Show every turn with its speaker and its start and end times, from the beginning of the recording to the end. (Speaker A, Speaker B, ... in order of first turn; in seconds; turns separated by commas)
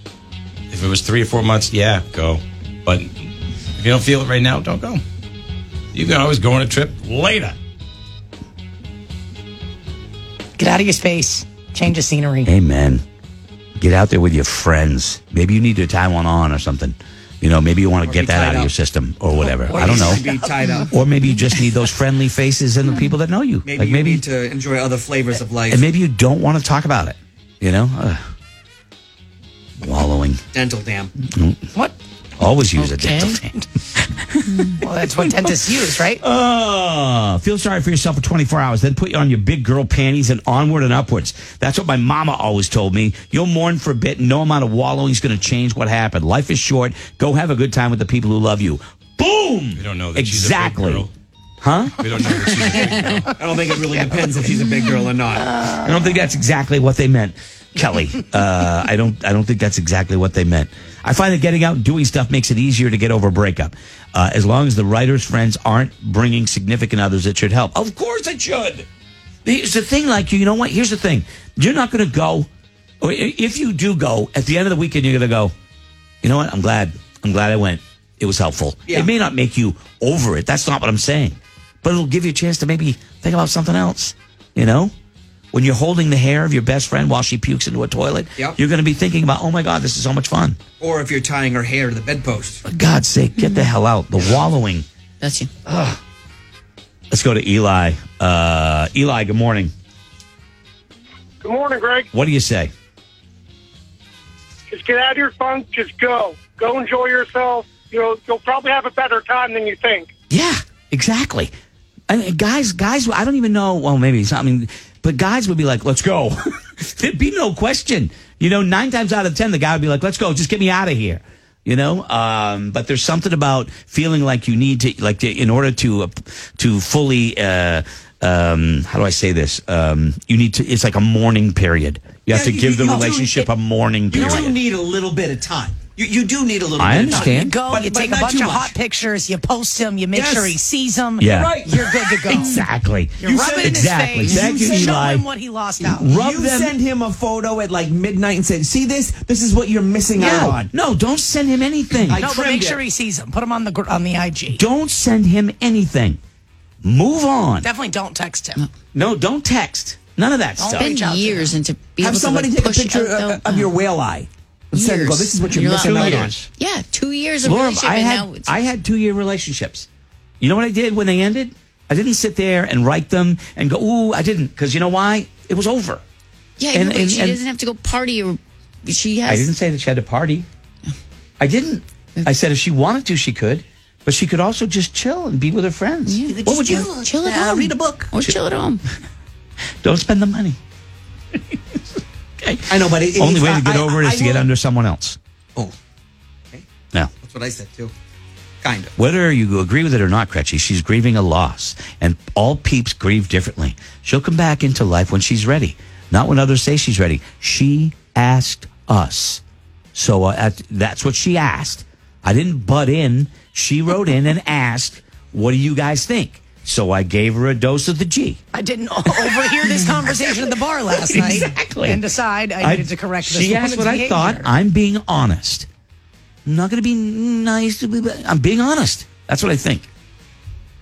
Speaker A: 0.7-3.1, Speaker A: 3.8-5.0, Speaker A: 5.9-7.5, Speaker B: 10.6-12.5, Speaker C: 12.4-13.0, Speaker C: 13.8-20.2, Speaker D: 18.0-18.7, Speaker B: 19.4-20.9, Speaker D: 19.7-20.9, Speaker C: 20.9-24.2, Speaker D: 23.6-25.8, Speaker C: 25.7-28.2, Speaker C: 29.8-30.4, Speaker D: 30.5-31.1, Speaker C: 31.2-31.6, Speaker C: 32.4-33.5, Speaker E: 32.8-33.4, Speaker E: 34.5-34.8, Speaker B: 34.8-36.2, Speaker C: 35.2-35.6, Speaker C: 36.2-51.1, Speaker A: 49.8-51.1, Speaker C: 51.6-52.8, Speaker A: 52.0-53.3, Speaker D: 53.4-55.6, Speaker C: 55.7-68.8, Speaker C: 69.4-72.5, Speaker C: 73.0-75.5, Speaker C: 76.2-84.9, Speaker C: 85.5-90.6, Speaker D: 90.8-92.6, Speaker C: 92.7-94.8, Speaker E: 93.4-93.7, Speaker E: 95.2-95.5, Speaker C: 95.7-96.0, Speaker C: 97.1-99.7, Speaker F: 101.4-102.1, Speaker C: 102.1-102.7, Speaker F: 104.7-110.1, Speaker C: 110.3-111.5, Speaker C: 112.1-134.5, Speaker D: 132.3-133.5, Speaker D: 134.1-138.7, Speaker C: 136.8-137.6, Speaker B: 137.0-142.6, Speaker D: 140.1-140.6, Speaker C: 141.2-141.5, Speaker D: 141.3-142.3, Speaker C: 142.3-145.2, Speaker B: 143.2-146.1, Speaker D: 143.2-145.0, Speaker D: 145.8-150.7, Speaker C: 145.9-146.7, Speaker C: 150.1-152.2, Speaker B: 152.1-154.6, Speaker D: 152.1-152.8, Speaker C: 154.5-156.2, Speaker C: 156.8-157.7, Speaker B: 157.6-158.7, Speaker C: 158.9-160.9, Speaker B: 160.6-161.5, Speaker E: 160.7-163.7, Speaker D: 162.0-166.4, Speaker E: 164.7-168.5, Speaker C: 165.5-166.4, Speaker C: 167.4-169.9, Speaker C: 170.4-176.0, Speaker E: 176.6-179.5, Speaker C: 176.7-177.4, Speaker C: 179.2-180.5, Speaker C: 181.4-186.8, Speaker E: 186.1-188.8, Speaker D: 186.2-188.1, Speaker C: 189.8-190.6, Speaker C: 192.4-195.2, Speaker D: 192.7-194.5, Speaker D: 197.2-197.9, Speaker D: 198.6-198.9, Speaker C: 199.0-209.4, Speaker C: 209.9-218.4, Speaker B: 218.5-224.5, Speaker C: 219.5-222.0, Speaker C: 222.6-225.7, Speaker C: 226.4-229.8